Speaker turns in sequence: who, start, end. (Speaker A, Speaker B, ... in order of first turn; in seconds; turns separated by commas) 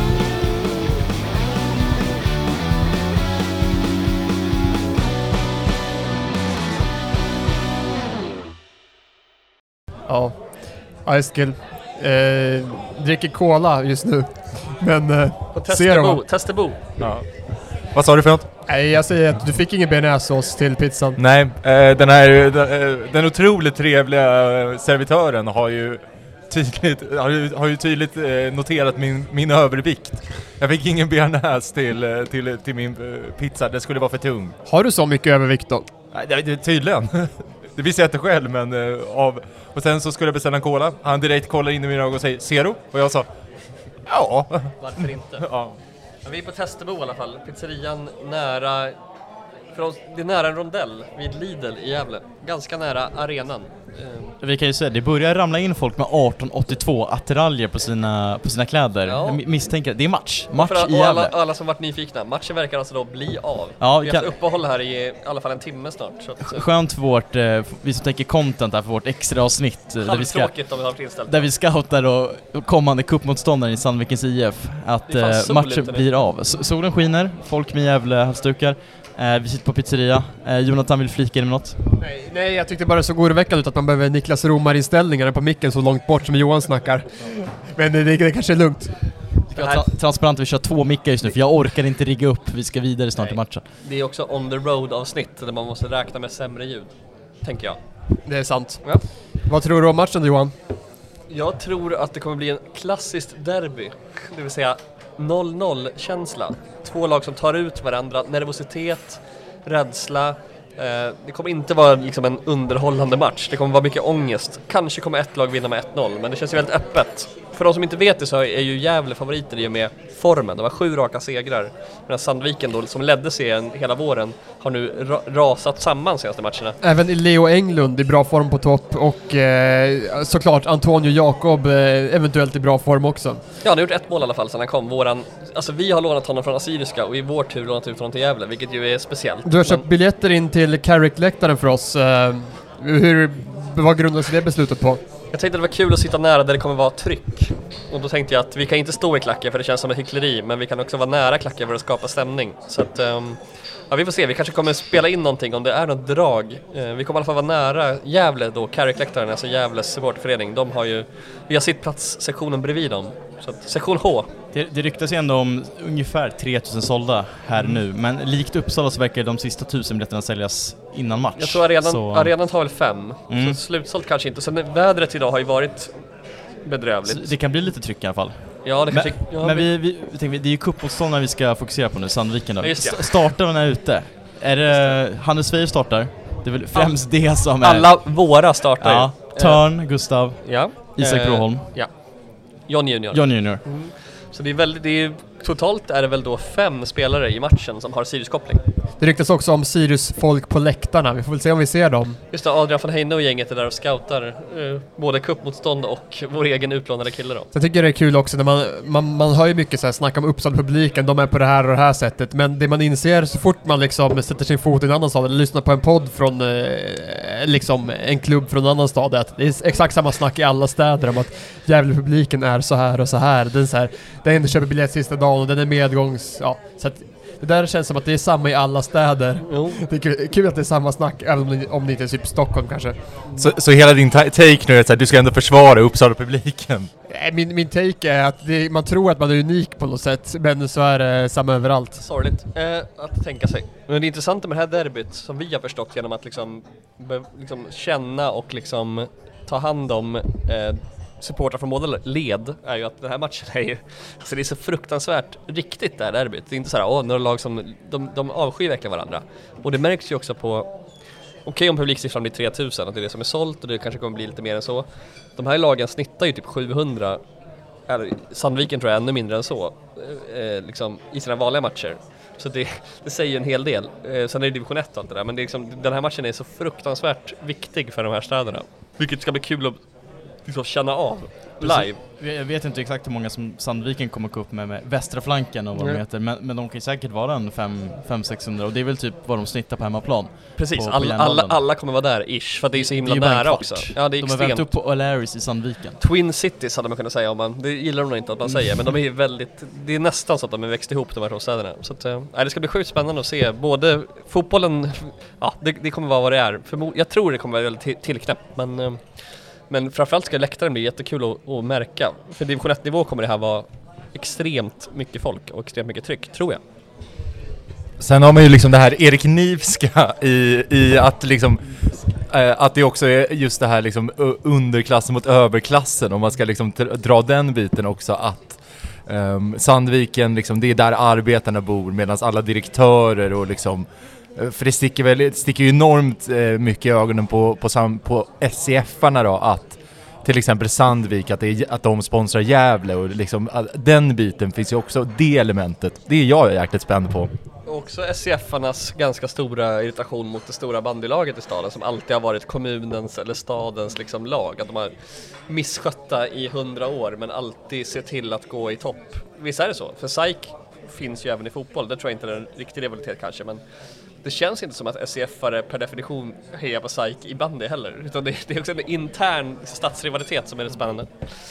Speaker A: 10.1-16.2, Speaker B: 15.5-16.8, Speaker C: 17.0-18.5, Speaker A: 18.7-21.2, Speaker C: 21.2-34.5, Speaker A: 34.6-35.9, Speaker C: 36.1-43.3, Speaker C: 44.1-45.8, Speaker B: 44.8-45.5, Speaker B: 46.2-49.0, Speaker B: 49.7-54.3, Speaker D: 54.4-61.3, Speaker B: 59.1-59.4, Speaker B: 60.5-66.6, Speaker D: 63.8-64.3, Speaker D: 66.4-70.5, Speaker B: 70.0-71.5, Speaker D: 71.3-81.8, Speaker B: 75.1-76.2, Speaker A: 82.0-88.9, Speaker D: 89.5-93.6, Speaker B: 89.6-89.8, Speaker B: 93.2-97.8, Speaker A: 98.2-98.9, Speaker A: 99.4-100.5, Speaker B: 101.3-126.8, Speaker A: 126.8-133.4, Speaker B: 133.6-139.8, Speaker A: 139.4-145.0, Speaker B: 145.3-164.3, Speaker D: 164.5-172.3, Speaker B: 171.4-175.9, Speaker D: 173.3-173.6, Speaker B: 176.6-177.3, Speaker D: 177.1-188.0, Speaker B: 178.6-179.7, Speaker B: 182.6-183.3, Speaker B: 184.7-185.0, Speaker B: 186.7-189.6, Speaker D: 188.8-191.7, Speaker B: 190.4-198.6, Speaker D: 193.1-193.6, Speaker A: 199.0-202.2, Speaker B: 202.3-207.5, Speaker A: 207.5-233.0, Speaker B: 229.4-229.8, Speaker C: 233.3-236.9, Speaker A: 237.1-242.0, Speaker B: 242.0-260.7, Speaker B: 261.4-267.2, Speaker B: 267.9-279.9, Speaker B: 280.4-282.0, Speaker D: 281.6-291.6, Speaker B: 290.6-294.7, Speaker D: 292.8-295.9, Speaker B: 296.0-316.6, Speaker C: 318.0-321.6, Speaker C: 322.2-347.3, Speaker B: 347.6-354.9, Speaker B: 355.5-363.6, Speaker B: 364.2-371.4